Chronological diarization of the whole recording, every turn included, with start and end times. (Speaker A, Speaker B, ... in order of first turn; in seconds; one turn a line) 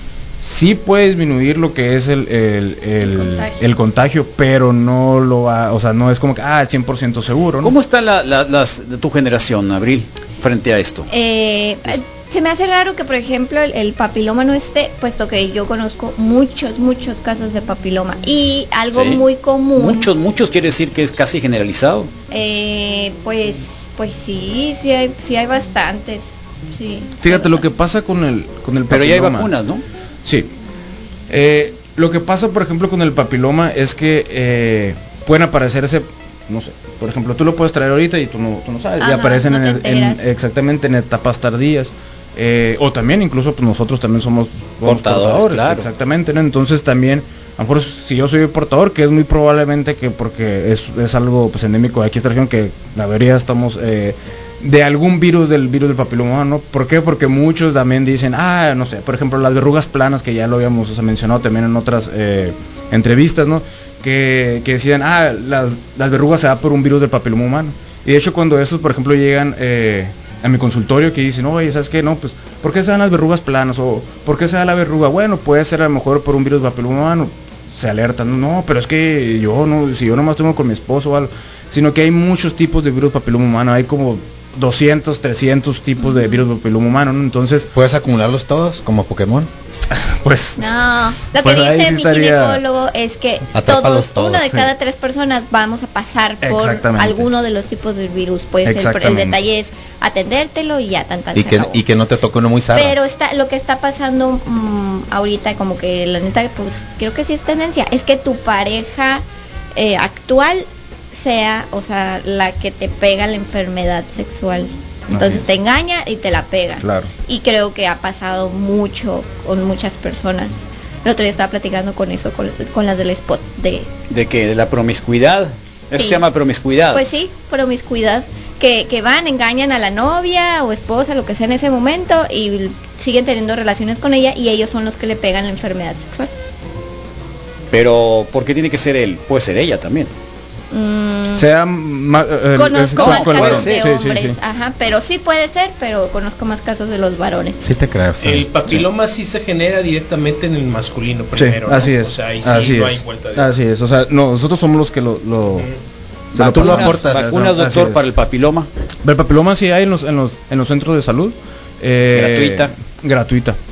Speaker A: 0.4-7.7
Speaker B: 3.0-3.6
Speaker C: 7.6-11.1
Speaker B: 11.1-20.1
Speaker C: 18.9-19.2
Speaker C: 19.8-22.1
Speaker B: 22.3-27.7
Speaker A: 27.2-29.5
Speaker C: 28.9-29.8
Speaker A: 31.3-87.7
Speaker B: 39.0-40.2
Speaker C: 44.9-45.9
Speaker B: 86.0-86.3
Speaker D: 87.8-89.5
Speaker A: 89.9-90.7
Speaker B: 90.6-101.8
Speaker A: 91.4-92.6
Speaker D: 93.5-94.6
Speaker A: 96.4-97.3
Speaker A: 98.6-99.4
Speaker D: 101.3-103.0
Speaker B: 102.8-109.2
Speaker B: 109.8-123.9
Speaker A: 115.1-115.5
Speaker A: 116.8-117.1
Speaker C: 124.1-127.0
Speaker B: 126.0-126.2
Speaker B: 126.9-136.3
Speaker C: 137.7-140.1
Speaker B: 140.7-141.5
Speaker A: 141.4-144.4
Speaker B: 142.5-147.6
Speaker C: 143.0-143.8
Speaker D: 147.6-148.9
Speaker E: 148.2-153.5
Speaker A: 151.4-155.7
Speaker E: 155.5-155.8
Speaker A: 156.3-158.0
Speaker C: 156.3-158.7
Speaker D: 156.4-157.4
Speaker A: 159.0-163.6
Speaker C: 162.1-162.7